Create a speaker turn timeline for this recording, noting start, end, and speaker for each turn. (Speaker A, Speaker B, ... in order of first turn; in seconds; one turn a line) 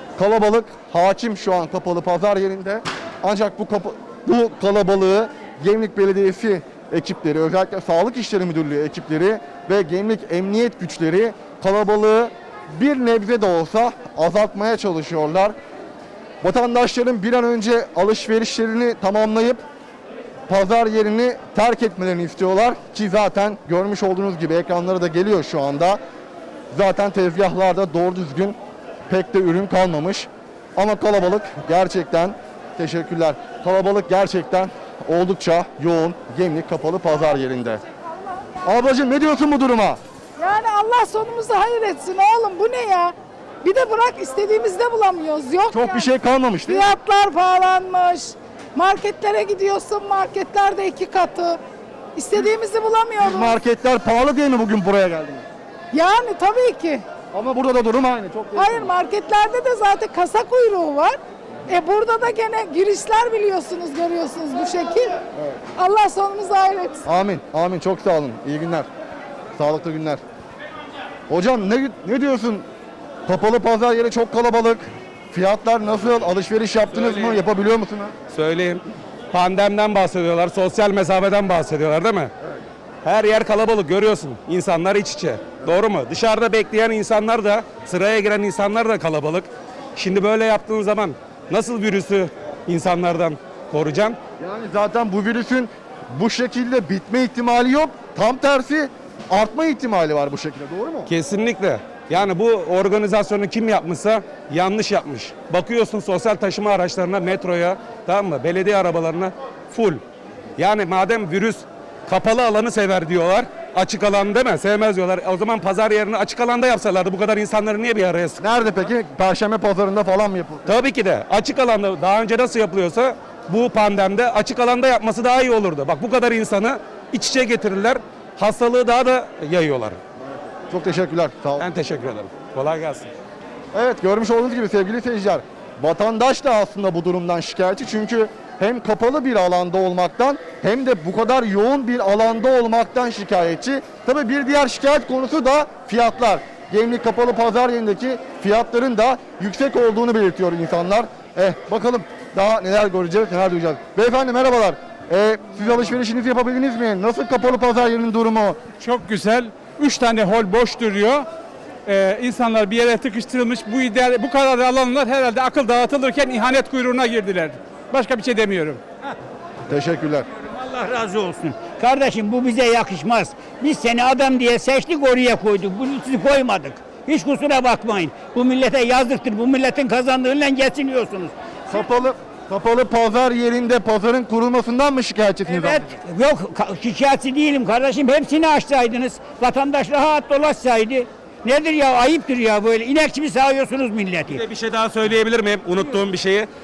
Speaker A: 0.2-15.5
Speaker A: 16.4-19.6
Speaker A: 20.5-26.0
Speaker A: 26.7-28.6
Speaker A: 29.1-37.8
Speaker A: 38.6-40.0
Speaker B: 40.4-46.0
Speaker A: 45.7-46.9
Speaker B: 46.7-51.6
Speaker B: 52.1-53.5
Speaker A: 53.2-55.4
Speaker B: 55.9-57.0
Speaker A: 57.3-58.9
Speaker B: 58.6-61.2
Speaker B: 61.7-65.1
Speaker B: 65.8-67.0
Speaker A: 67.0-68.9
Speaker A: 69.6-70.2
Speaker A: 71.3-72.7
Speaker A: 73.3-78.1
Speaker C: 76.9-77.4
Speaker C: 78.3-82.3
Speaker C: 83.0-94.2
Speaker A: 94.4-101.1
Speaker C: 101.1-110.0
Speaker C: 110.6-118.4
Speaker A: 118.4-120.8
Speaker C: 120.7-130.0
Speaker A: 130.7-131.7
Speaker C: 131.6-133.1
Speaker A: 133.7-158.6
Speaker D: 158.8-161.2
Speaker D: 161.9-168.8
Speaker A: 169.7-170.2
Speaker E: 170.3-181.3
Speaker A: 181.7-185.9
Speaker E: 185.4-194.4
Speaker C: 194.3-196.5